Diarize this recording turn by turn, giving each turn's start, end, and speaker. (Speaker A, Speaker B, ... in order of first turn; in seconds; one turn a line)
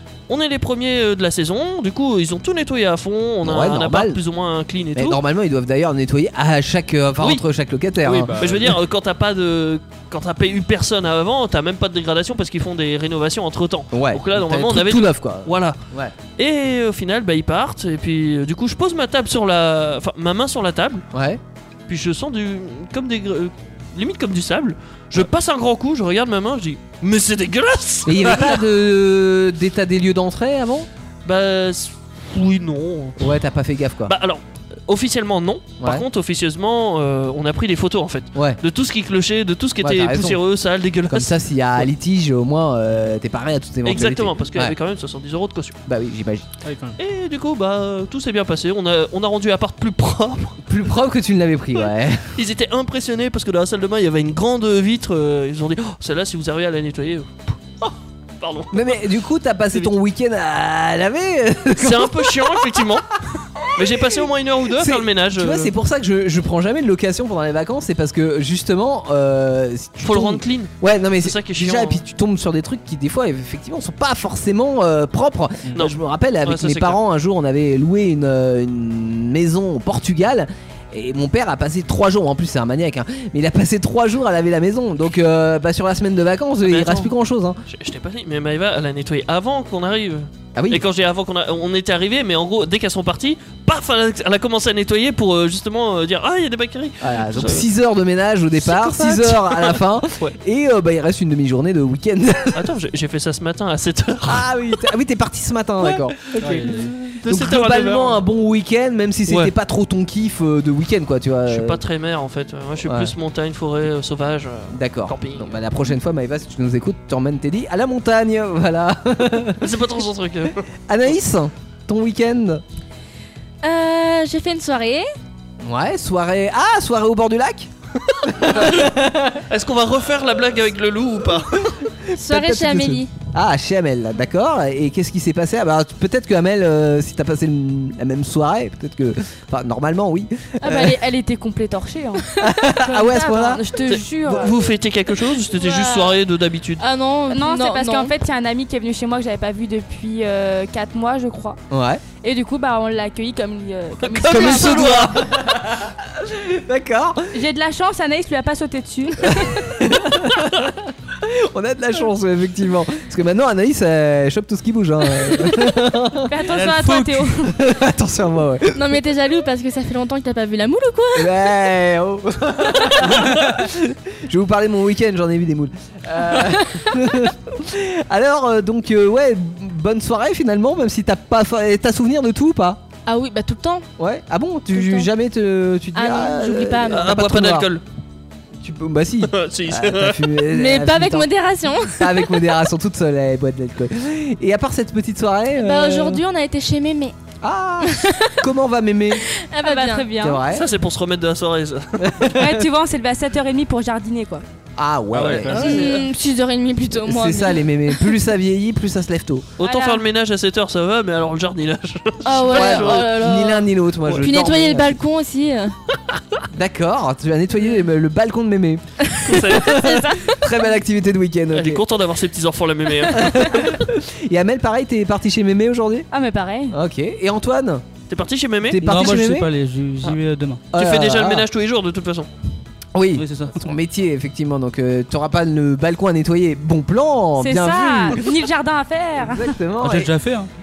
Speaker A: 0.3-5.2
Speaker B: 3.4-4.2
Speaker B: 4.9-8.4
Speaker C: 8.0-8.8
Speaker A: 8.4-15.8
Speaker B: 13.9-16.1
Speaker A: 16.4-21.0
Speaker B: 21.1-21.4
Speaker A: 21.9-28.6
Speaker B: 28.0-30.9
Speaker A: 31.2-33.4
Speaker B: 33.2-34.1
Speaker A: 34.0-41.8
Speaker B: 38.3-38.6
Speaker B: 39.8-40.4
Speaker B: 41.1-44.7
Speaker A: 43.9-45.7
Speaker B: 45.9-46.5
Speaker C: 46.6-47.0
Speaker A: 47.0-50.6
Speaker B: 50.6-52.3
Speaker A: 52.3-57.5
Speaker A: 58.4-59.0
Speaker B: 58.7-62.9
Speaker A: 61.8-63.1
Speaker A: 63.7-65.7
Speaker B: 64.7-87.6
Speaker A: 70.0-72.0
Speaker A: 75.7-77.0
Speaker A: 86.6-87.1
Speaker A: 87.7-97.7
Speaker B: 90.5-90.8
Speaker B: 97.0-102.7
Speaker A: 98.6-100.3
Speaker A: 102.5-104.5
Speaker B: 104.2-111.8
Speaker A: 105.8-108.2
Speaker C: 106.4-106.9
Speaker A: 109.3-109.5
Speaker A: 111.5-115.6
Speaker B: 112.8-113.1
Speaker B: 114.7-119.6
Speaker A: 119.6-120.6
Speaker B: 120.9-122.6
Speaker D: 123.6-125.0
Speaker B: 125.6-127.7
Speaker B: 128.2-129.4
Speaker A: 128.4-128.9
Speaker A: 129.5-131.8
Speaker B: 132.1-141.0
Speaker D: 132.1-133.1
Speaker E: 140.6-144.5
Speaker B: 142.4-143.6
Speaker A: 143.9-146.8
Speaker E: 145.6-146.1
Speaker D: 146.8-148.1
Speaker E: 147.3-151.6
Speaker B: 151.7-152.0
Speaker E: 152.2-155.0
Speaker A: 154.0-155.2
Speaker B: 154.2-157.3
Speaker E: 157.3-159.7
Speaker B: 159.2-166.3
Speaker E: 166.3-167.5
Speaker F: 166.4-167.3
Speaker B: 167.4-168.9
Speaker D: 168.7-171.4
Speaker B: 171.1-182.8
Speaker D: 183.1-183.9
Speaker B: 184.0-187.7
Speaker D: 184.7-185.1
Speaker D: 185.9-187.0
Speaker A: 186.9-187.8
Speaker B: 188.6-191.3
Speaker A: 189.3-190.3
Speaker D: 190.5-192.3
Speaker B: 191.9-196.2
Speaker D: 195.6-197.1
Speaker B: 197.4-199.2
Speaker D: 197.8-198.3
Speaker D: 199.5-200.2
Speaker E: 199.6-200.4
Speaker B: 200.2-200.7
Speaker A: 200.5-201.8
Speaker B: 202.0-202.7
Speaker E: 202.3-204.4
Speaker B: 204.8-205.9
Speaker C: 205.1-205.6
Speaker A: 205.2-206.0
Speaker D: 205.5-208.0
Speaker B: 207.0-209.5
Speaker A: 209.6-213.1
Speaker E: 209.6-210.0
Speaker D: 212.2-215.7
Speaker B: 212.5-215.0
Speaker B: 216.5-221.8
Speaker A: 219.2-219.8
Speaker A: 221.5-223.7
Speaker B: 223.1-226.1
Speaker E: 226.1-226.8
Speaker B: 226.7-227.8
Speaker A: 228.1-228.8
Speaker B: 228.7-229.5
Speaker F: 228.8-230.6
Speaker B: 230.7-231.5
Speaker A: 230.7-232.3
Speaker B: 232.9-238.2
Speaker F: 233.2-233.6
Speaker E: 237.4-239.5
Speaker B: 239.2-240.1
Speaker F: 239.8-240.5